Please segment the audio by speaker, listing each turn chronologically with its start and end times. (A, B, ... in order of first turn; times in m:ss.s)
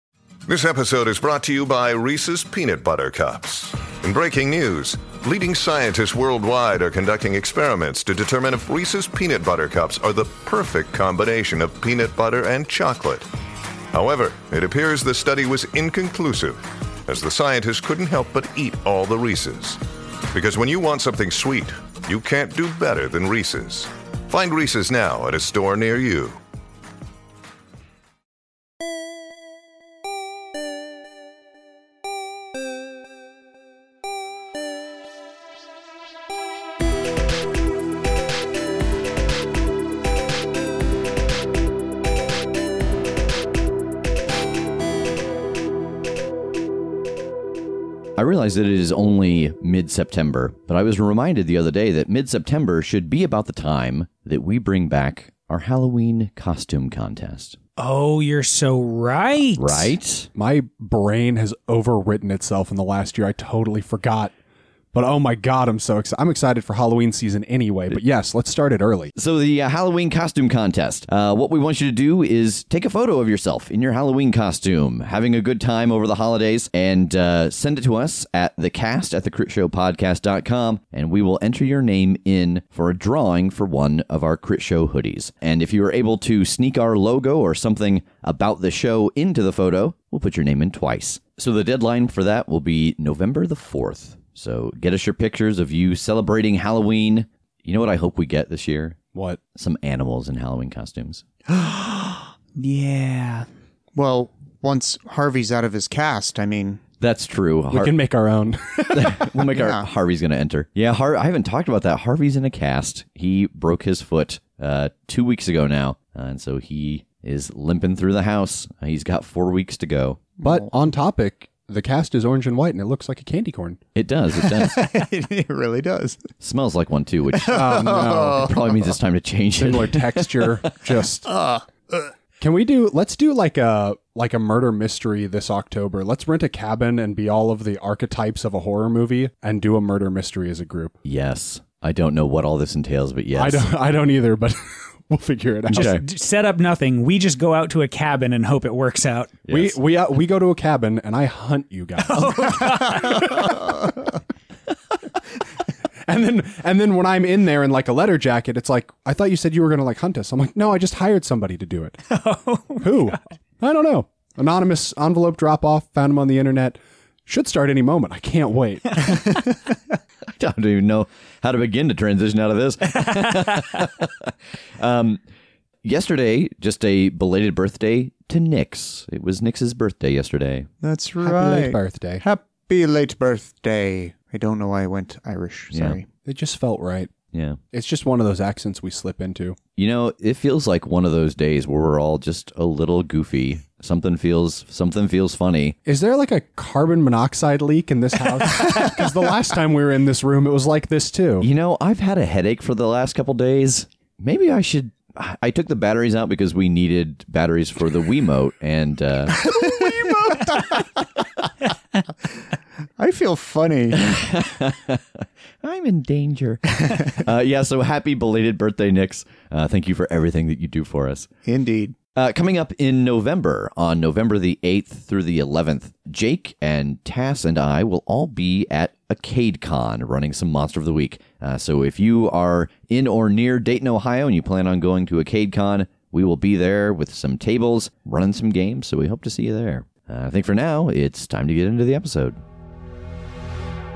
0:00.4-0:13.3 A
0:13.9-0:19.8 A
0:20.3-0:26.4 A
0:48.2-0:57.6 B
0:57.8-1:00.0 C
0:59.6-1:00.3 B
1:00.3-1:04.3 D
1:04.9-1:09.1 D
1:09.2-1:39.0 B
1:39.1-1:39.4 D
1:39.5-1:41.2 B
1:41.5-1:43.5 C
1:43.9-1:46.8 E
1:47.0-1:47.9 B
1:47.7-1:49.4 D
1:48.9-2:00.2 B
1:49.5-1:49.8 E
2:00.4-2:00.7 E
2:00.4-2:03.8 D
2:03.9-2:04.8 B
2:04.7-2:06.2 E
2:06.4-2:10.6 B
2:07.3-2:08.8 E
2:07.5-2:08.4 D
2:09.6-2:11.3 D
2:11.2-2:12.1 E
2:12.4-2:21.0 D
2:21.0-2:23.7 B
2:23.3-2:25.9 D
2:25.7-2:26.0 B
2:25.7-2:29.4 C
2:29.4-2:29.8 B
2:29.5-2:33.8 D
2:32.1-2:33.3 C
2:36.1-2:42.0 D
2:42.1-2:43.2 C
2:42.8-2:49.1 D
2:50.3-2:55.2 B
2:55.8-3:00.7 B
3:00.8-3:06.1 E
3:01.2-3:02.2 D
3:05.7-3:06.0 B
3:06.2-3:07.1 D
3:07.3-3:07.6 B
3:07.7-3:09.6 D
3:09.8-3:15.8 B
3:15.8-3:21.5 D
3:21.4-3:29.6 B
3:29.4-3:30.8 E
3:33.0-3:34.2 E
3:33.9-3:41.3 B
3:41.4-3:42.0 E
3:42.2-4:02.4 B